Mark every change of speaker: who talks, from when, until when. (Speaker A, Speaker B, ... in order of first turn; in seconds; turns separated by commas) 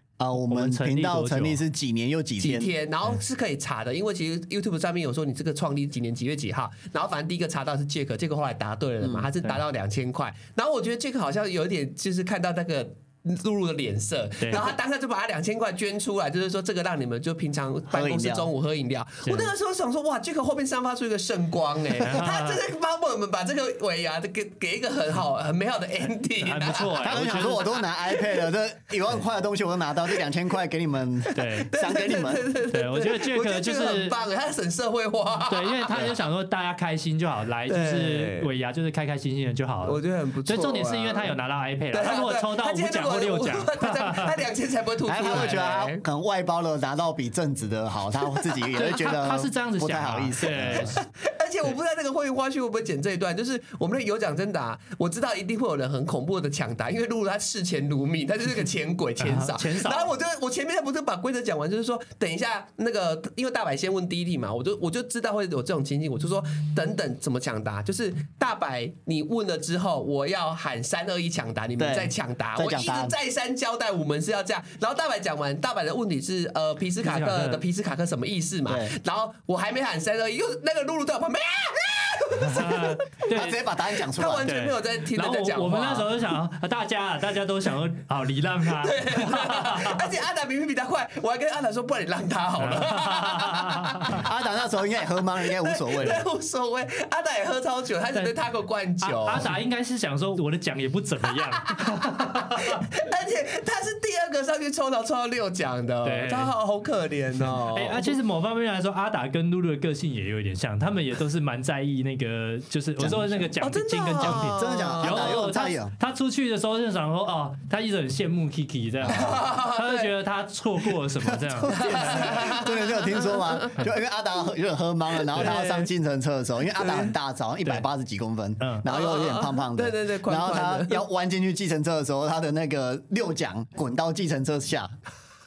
Speaker A: 0.2-2.7, Speaker B: 0.5-1.6, Speaker C: 2.4-28.4, Speaker A: 9.0-9.3, Speaker A: 17.9-18.5, Speaker B: 19.2-19.5, Speaker B: 22.0-22.6, Speaker B: 26.4-27.6, Speaker A: 27.0-32.5, Speaker C: 31.3-36.1, Speaker B: 31.3-31.7, Speaker B: 32.7-34.2, Speaker B: 35.5-44.4, Speaker C: 37.7-38.5, Speaker C: 39.8-41.3, Speaker C: 41.9-46.0, Speaker A: 45.1-51.0, Speaker B: 45.3-45.6, Speaker B: 48.8-51.0, Speaker C: 50.8-83.3, Speaker B: 59.2-60.1, Speaker A: 71.8-73.1, Speaker B: 77.0-77.6, Speaker A: 78.7-78.9, Speaker B: 82.4-83.6, Speaker A: 83.3-84.5, Speaker C: 83.9-86.2, Speaker B: 84.4-90.1, Speaker C: 88.8-94.3, Speaker B: 92.6-94.2, Speaker A: 94.1-96.2, Speaker C: 95.4-99.5, Speaker B: 99.0-102.8, Speaker C: 101.3-108.2, Speaker B: 106.0-106.5, Speaker B: 107.6-122.4, Speaker A: 113.0-113.5, Speaker C: 113.6-115.4, Speaker A: 114.2-115.9, Speaker C: 119.1-120.1, Speaker A: 121.3-134.9, Speaker C: 121.7-123.7, Speaker C: 125.3-125.9, Speaker C: 126.8-127.1, Speaker B: 128.6-128.8, Speaker C: 128.9-131.0